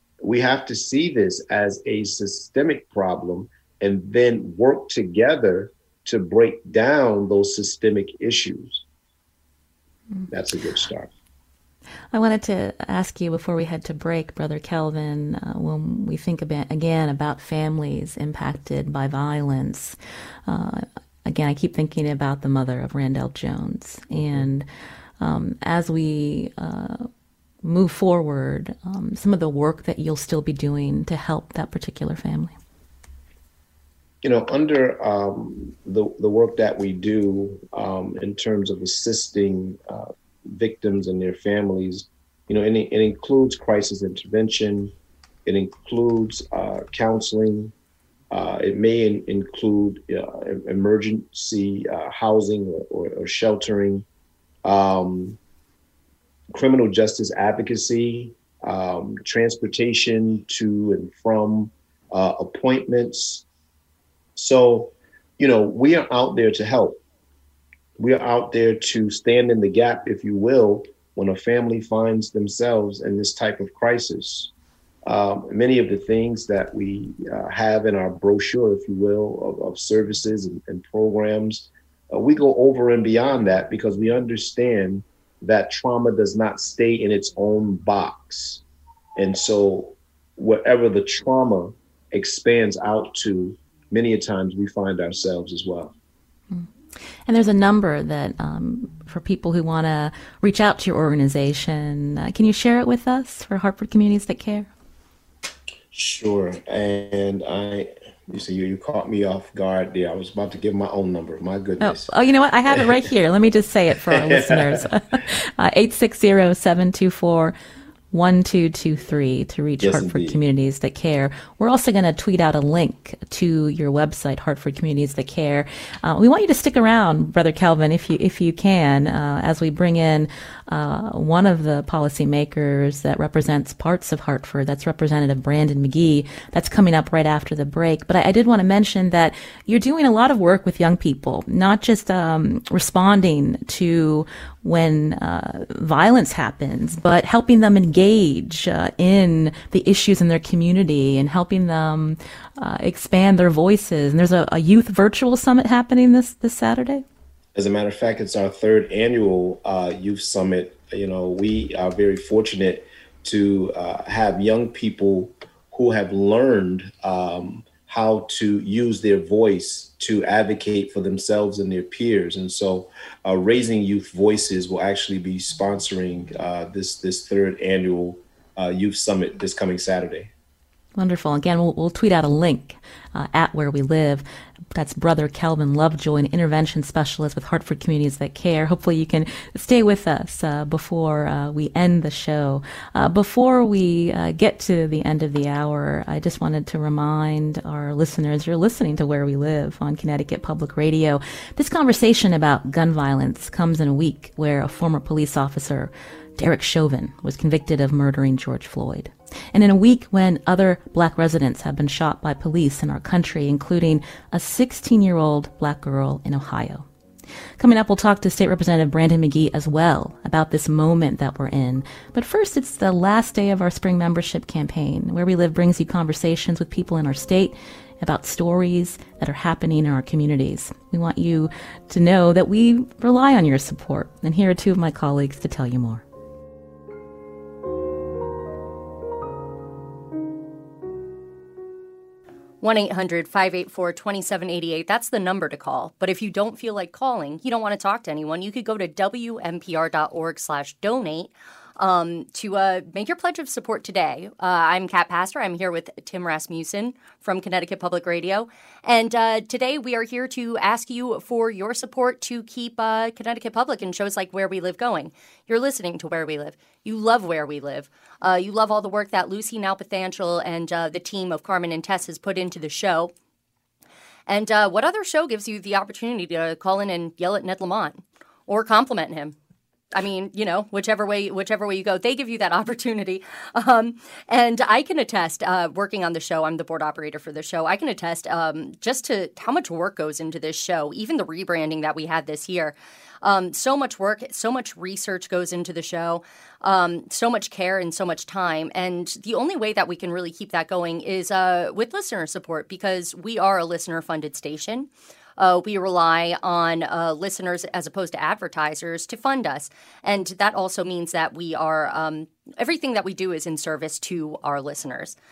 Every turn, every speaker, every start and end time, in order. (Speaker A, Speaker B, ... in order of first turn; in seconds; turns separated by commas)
Speaker A: 0.2-8.8, Speaker A: 10.3-11.1, Speaker B: 12.1-24.7, Speaker A: 24.1-24.5, Speaker B: 25.2-27.1, Speaker B: 27.6-32.5, Speaker A: 34.2-45.0, Speaker A: 45.5-47.7, Speaker A: 48.3-54.1, Speaker A: 54.6-55.4, Speaker A: 56.5-63.5, Speaker A: 64.4-67.0, Speaker A: 68.0-74.5, Speaker A: 75.1-88.6, Speaker A: 89.2-95.9, Speaker B: 97.3-104.7, Speaker A: 105.9-112.1, Speaker B: 111.8-117.5, Speaker A: 112.7-113.0, Speaker A: 114.0-114.9, Speaker B: 118.1-157.0, Speaker A: 119.8-120.4, Speaker A: 157.6-180.3, Speaker B: 181.0-216.9, Speaker B: 217.6-236.0, Speaker C: 242.6-273.1, Speaker C: 274.3-279.4, Speaker C: 279.9-315.2